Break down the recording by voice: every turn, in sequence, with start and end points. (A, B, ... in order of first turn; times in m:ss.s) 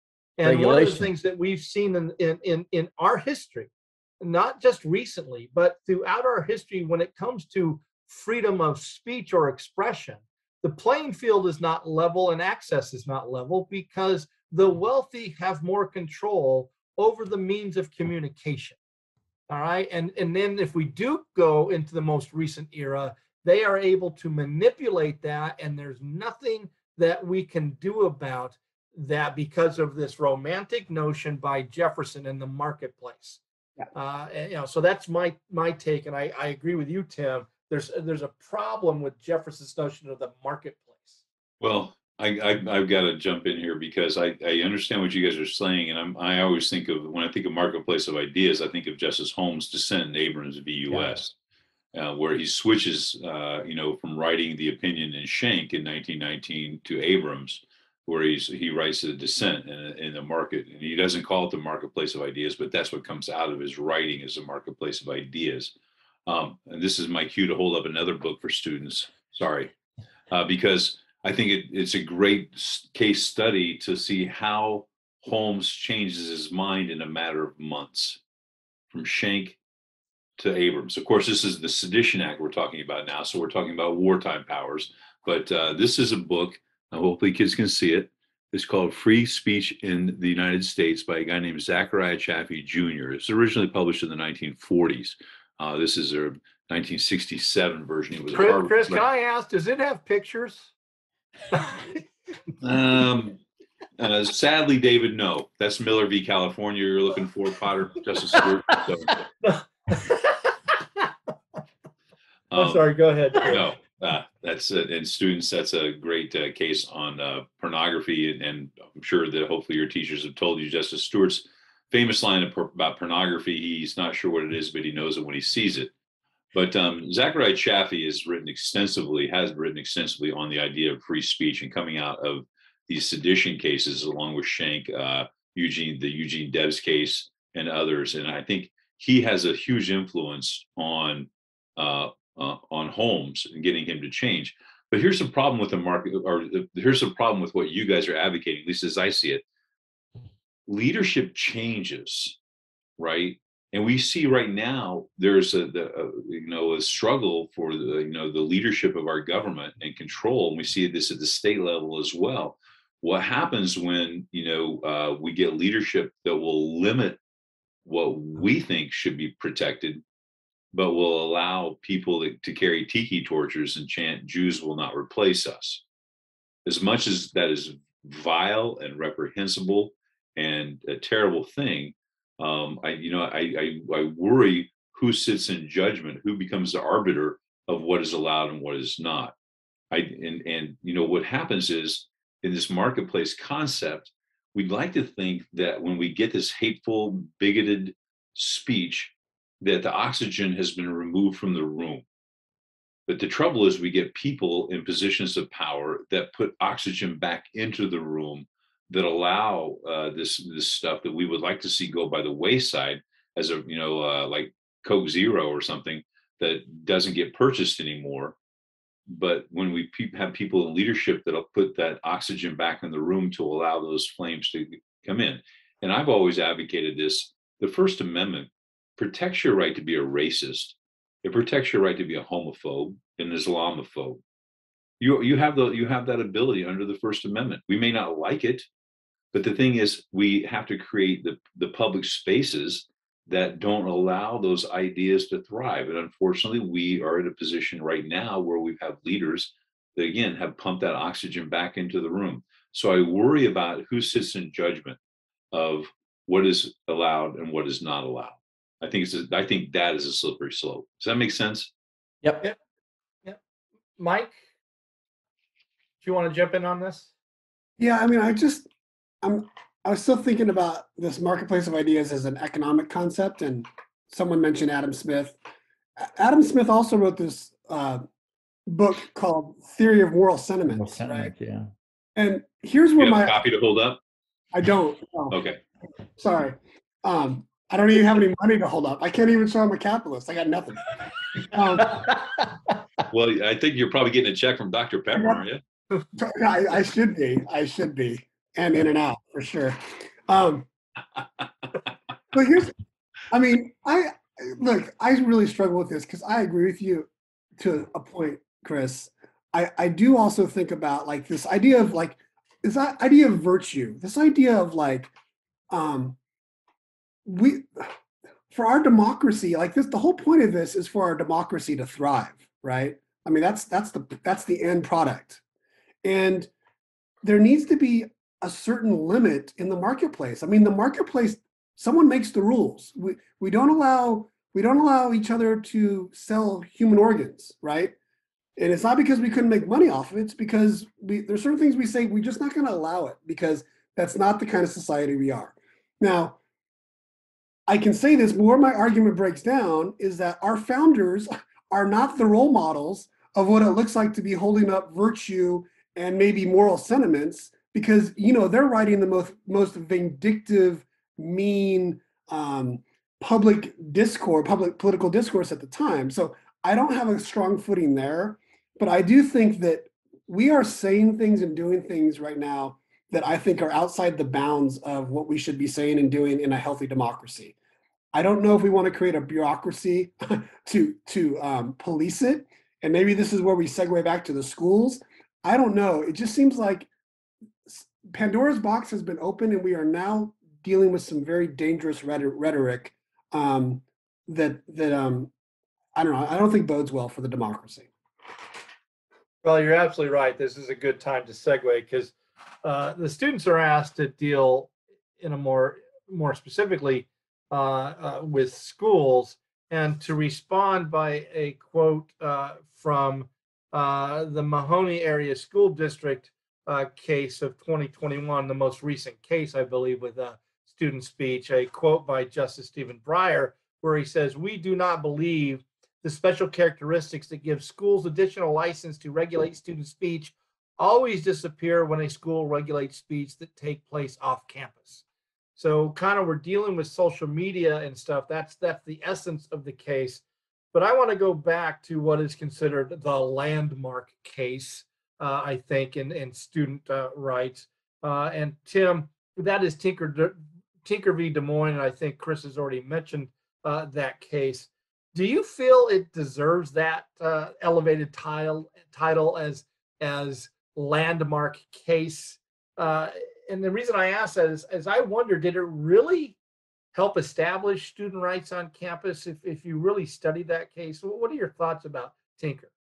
0:00.4-0:18.8 A
0:00.4-0:01.1 B
0:19.5-0:33.4 A
0:33.9-0:41.2 A
0:41.6-0:51.3 C
0:50.9-0:51.2 B
0:51.9-1:05.7 C
1:06.3-1:09.7 C
1:10.3-1:18.2 C
1:18.9-1:19.6 C
1:20.4-1:39.0 C
1:38.3-1:40.7 A
1:41.5-1:42.0 A
1:42.6-1:43.4 C
1:44.0-1:49.2 C
1:49.4-1:51.1 A
1:52.5-1:52.9 C
1:52.6-1:53.6 A
1:53.4-2:05.9 C
2:06.5-2:29.4 C
2:30.7-2:32.4 C
2:33.0-2:47.2 C
2:47.8-2:50.0 C
2:50.7-2:55.8 C
2:56.6-3:09.4 C
3:09.9-3:22.0 C
3:23.1-3:38.4 C
3:39.1-3:54.2 C
3:55.0-3:58.7 C
3:59.3-4:15.0 C
4:15.5-4:21.7 C
4:22.2-4:22.5 B
4:24.0-4:24.4 A
4:26.0-4:27.1 A
4:27.8-4:28.7 D
4:29.2-4:35.4 D
4:36.0-4:38.0 D
4:38.7-4:41.3 D
4:40.7-4:41.7 B
4:42.2-4:43.4 D
4:43.0-4:44.0 C
4:44.5-4:45.4 D
4:45.3-4:45.6 C
4:46.2-4:52.1 D
4:53.1-4:55.6 C
4:56.2-5:00.7 D
5:02.3-5:02.7 D
5:03.3-5:15.1 D
5:15.7-5:16.2 D
5:17.2-5:18.0 D
5:18.5-5:25.4 D
5:26.0-5:26.5 D
5:27.2-5:38.0 D
5:38.6-5:46.4 D
5:47.7-6:17.6 D
6:18.1-6:26.9 D
6:27.7-6:35.3 D
6:36.0-6:37.9 D
6:39.4-7:15.0 A
7:15.6-7:20.2 A
7:20.7-7:46.4 A
7:46.9-7:52.7 A